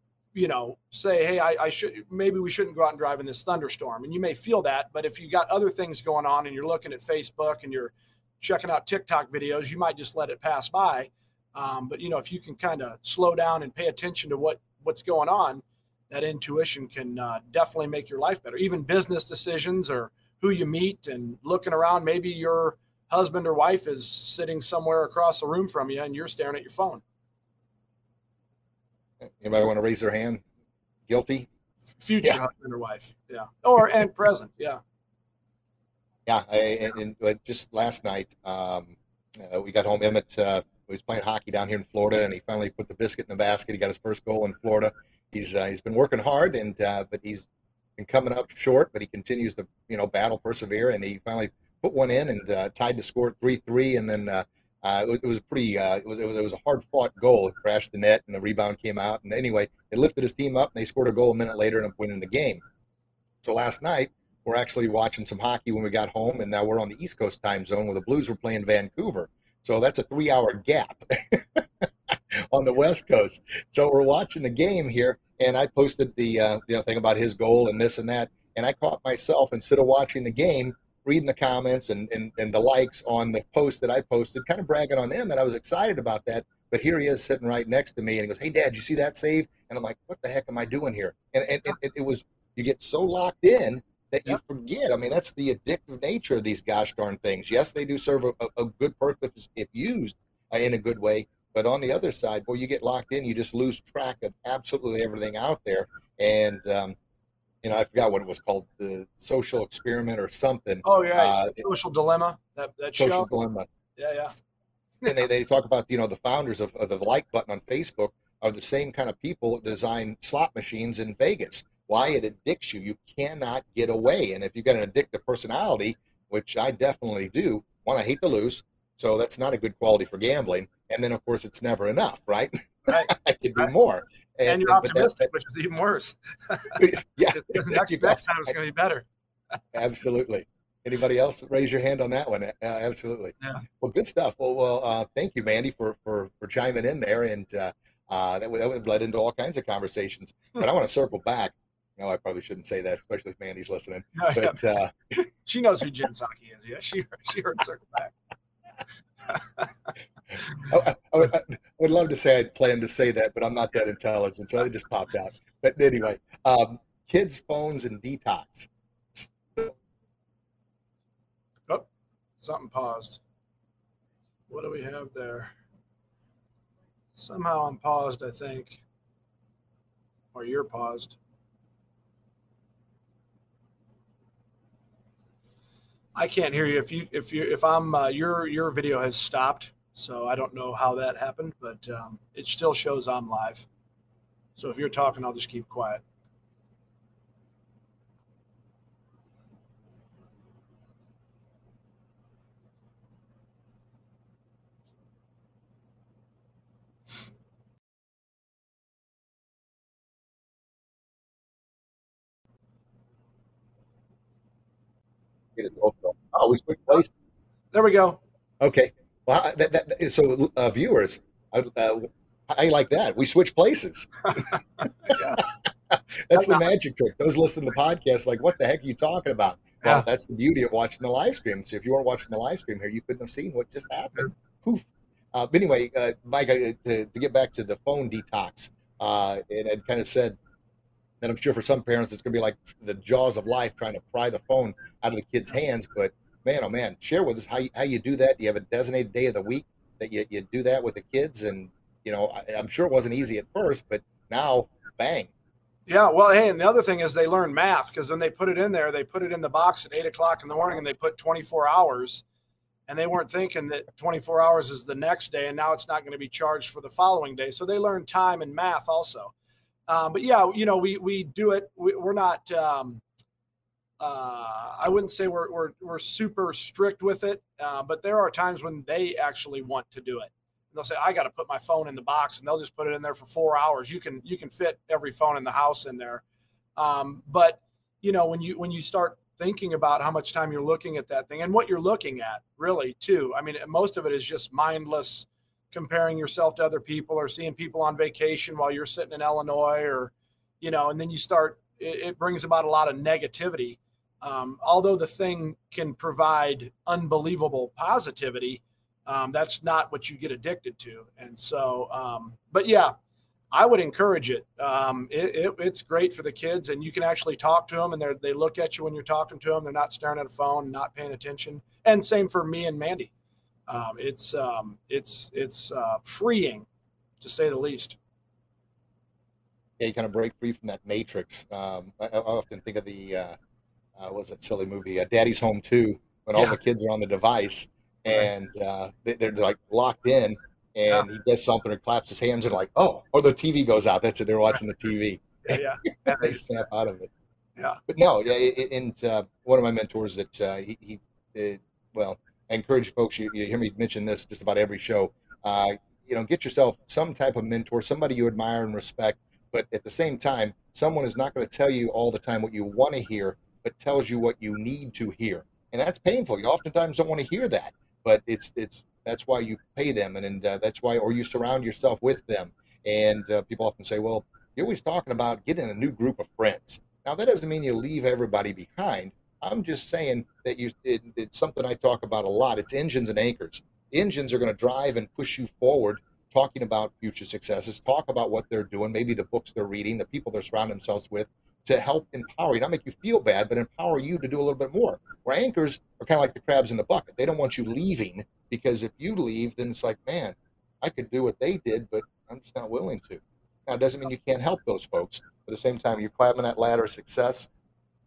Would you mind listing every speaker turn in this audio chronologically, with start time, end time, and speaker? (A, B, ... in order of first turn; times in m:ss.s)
0:00.3-0:27.0 A
0:29.2-0:30.4 B
0:31.1-0:31.5 B
0:32.0-0:34.8 A
0:36.2-1:02.6 B
1:03.4-1:47.0 B
1:47.6-1:51.6 B
1:50.8-1:53.3 A
1:52.9-1:53.7 B
1:54.0-1:54.4 A
1:55.1-2:15.3 B
2:12.9-2:13.7 A
2:14.4-2:19.0 A
2:16.8-2:18.3 B
2:19.7-2:35.0 B
2:34.1-2:34.6 A
2:35.2-2:38.1 A
2:39.3-2:39.7 A
2:40.6-2:49.7 B
2:52.4-2:53.2 A
2:54.5-2:55.5 A
2:57.2-2:58.8 A
3:00.3-3:01.2 A
3:06.2-3:13.7 A
3:14.6-3:16.0 A
3:35.6-3:37.1 B
3:37.7-3:38.2 A
3:38.6-3:44.2 B
3:45.1-3:45.4 A
3:45.4-4:00.4 B
3:46.3-3:46.6 A
4:01.2-4:15.3 B
4:15.9-4:22.2 A
4:22.9-4:29.3 A
4:29.9-4:33.0 A
4:34.0-4:46.2 A
4:46.8-5:12.9 A
5:13.5-5:23.1 A
5:23.7-5:26.7 A
5:27.2-5:28.0 A
5:29.8-5:33.4 B
5:34.0-5:47.1 B
5:45.4-5:46.4 A
5:47.9-6:47.5 B